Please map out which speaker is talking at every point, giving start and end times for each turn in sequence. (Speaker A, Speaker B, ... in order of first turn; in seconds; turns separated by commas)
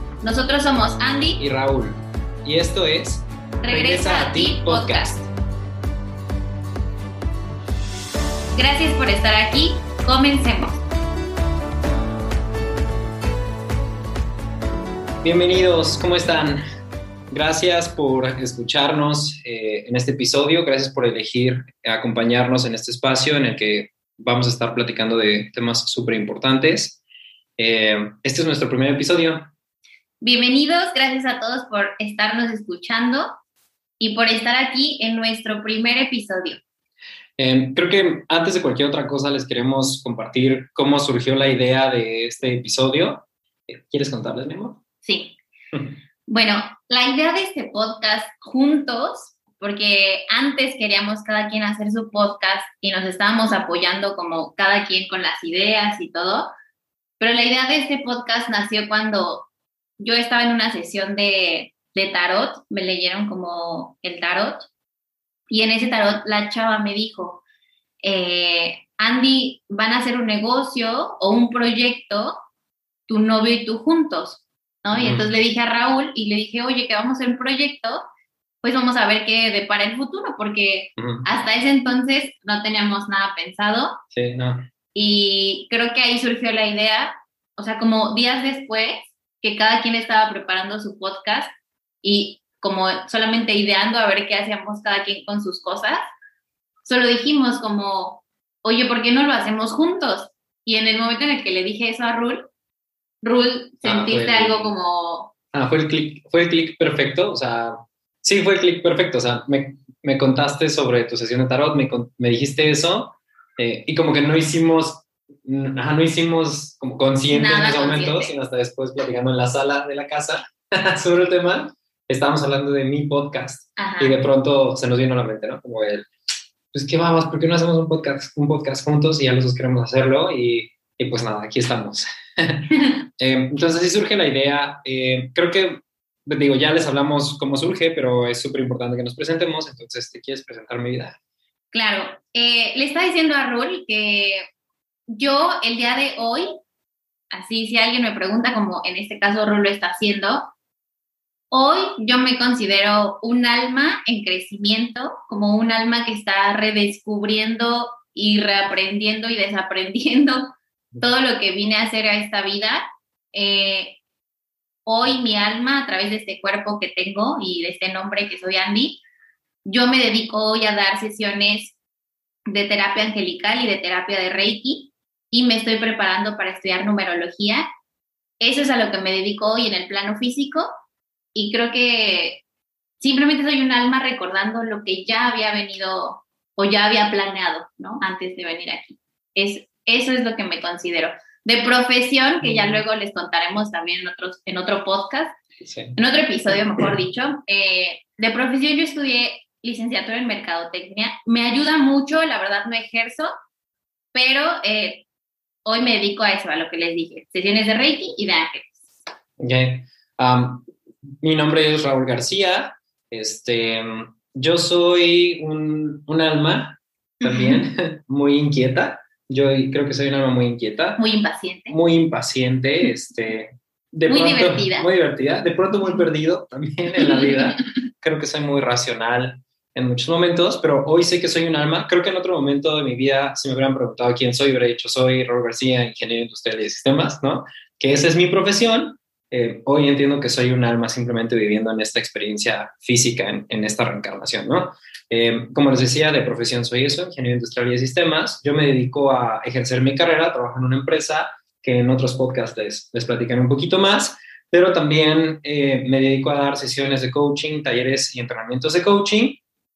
Speaker A: 0.2-1.4, Speaker B: 1.4-5.3, Speaker A: 3.6-5.2, Speaker A: 8.5-10.8, Speaker B: 15.2-16.6, Speaker B: 17.3-27.0, Speaker B: 27.6-29.5, Speaker A: 30.2-33.3, Speaker A: 34.0-36.6, Speaker B: 37.4-44.8, Speaker A: 45.0-45.4, Speaker A: 46.3-56.5, Speaker A: 57.2-59.5, Speaker A: 60.0-64.7, Speaker A: 65.5-67.4, Speaker A: 68.0-72.4, Speaker A: 73.1-78.0, Speaker B: 74.9-75.3, Speaker A: 78.6-84.0, Speaker B: 81.0-81.2, Speaker B: 84.1-84.7, Speaker A: 84.9-91.5, Speaker A: 92.0-96.0, Speaker A: 96.8-102.5, Speaker A: 103.2-105.3, Speaker B: 103.8-104.7, Speaker B: 105.5-126.1, Speaker A: 117.3-118.3, Speaker A: 123.8-124.2, Speaker B: 126.7-141.2, Speaker A: 141.7-144.4, Speaker A: 145.1-146.5, Speaker A: 147.3-150.5, Speaker A: 151.5-164.0, Speaker A: 164.8-169.0, Speaker A: 169.6-171.8, Speaker A: 172.5-177.7, Speaker A: 178.4-180.7, Speaker A: 181.3-182.4, Speaker A: 183.0-195.3, Speaker B: 192.4-192.8, Speaker B: 195.6-196.0, Speaker A: 195.9-203.3, Speaker A: 204.1-205.0, Speaker A: 205.6-208.8, Speaker B: 209.4-210.6, Speaker B: 211.2-221.0, Speaker A: 217.2-217.7, Speaker A: 221.0-221.8, Speaker B: 221.7-259.4, Speaker A: 224.1-224.9